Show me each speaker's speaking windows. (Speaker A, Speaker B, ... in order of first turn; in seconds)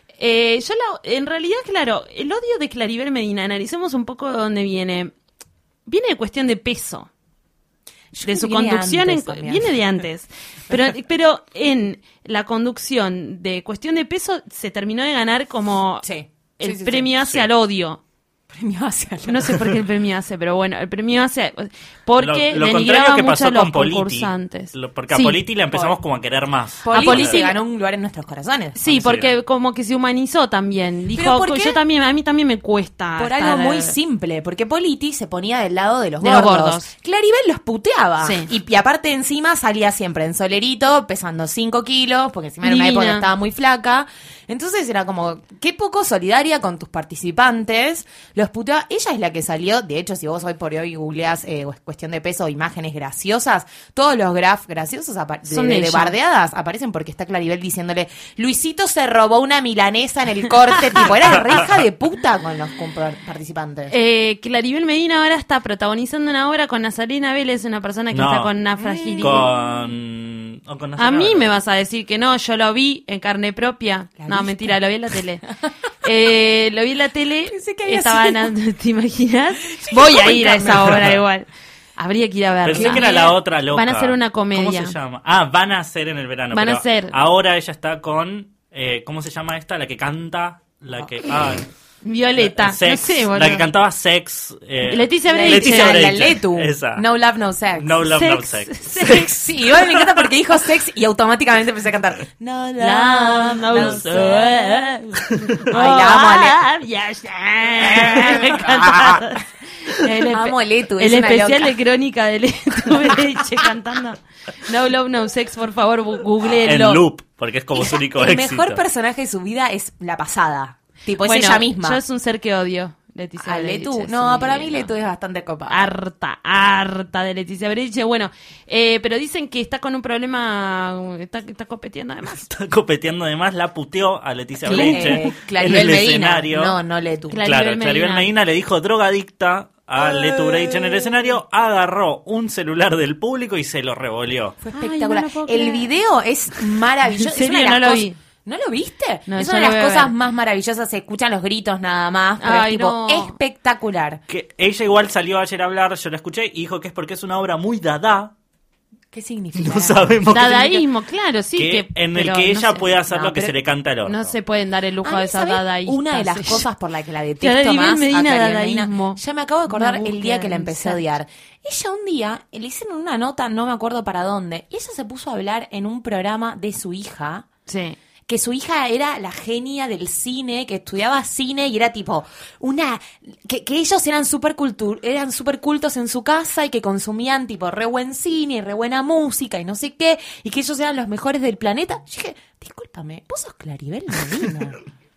Speaker A: 0.2-5.1, 5.9-7.1, 8.3-16.1, 16.6-18.0, 19.3-25.4, 26.9-27.6, 28.8-34.0, 36.2-36.9, 38.2-38.5, 42.6-43.3, 55.5-56.1, 63.9-69.5, 71.0-75.4, 76.0-85.0, 86.5-87.2, 92.0-93.7, 94.8-96.1, 98.1-99.3, 102.8-117.0, 121.2-124.9, 125.7-132.5, 134.6-135.3, 137.3-138.3, 144.7-145.9, 147.2-148.2, 149.3-150.1, 152.4-153.3, 160.3-163.5, 164.0-166.7, 167.4-171.2, 177.7-178.0
Speaker B: 8.1-9.7, 16.0-17.1, 18.5-19.8, 26.8-28.8, 31.1-31.8, 33.2-63.9, 68.8-69.5, 74.2-74.8, 77.5-78.5, 79.7-81.1, 82.7-83.2, 95.3-97.9, 99.0-104.8, 105.7-106.6, 107.9-108.7, 110.3-111.7, 117.8-122.0, 123.4-125.8, 134.6-137.4, 140.0-141.2, 144.6-154.2, 159.1-160.5, 165.0-177.4, 178.3-194.8
Speaker C: 22.2-27.4, 28.9-29.3, 68.1-68.5, 69.2-71.5, 82.7-91.7, 92.4-97.1, 97.8-100.3, 103.7-104.2, 105.2-105.6, 116.6-118.8, 132.5-136.8, 137.4-144.6, 154.3-158.3, 159.5-160.8, 161.6-164.3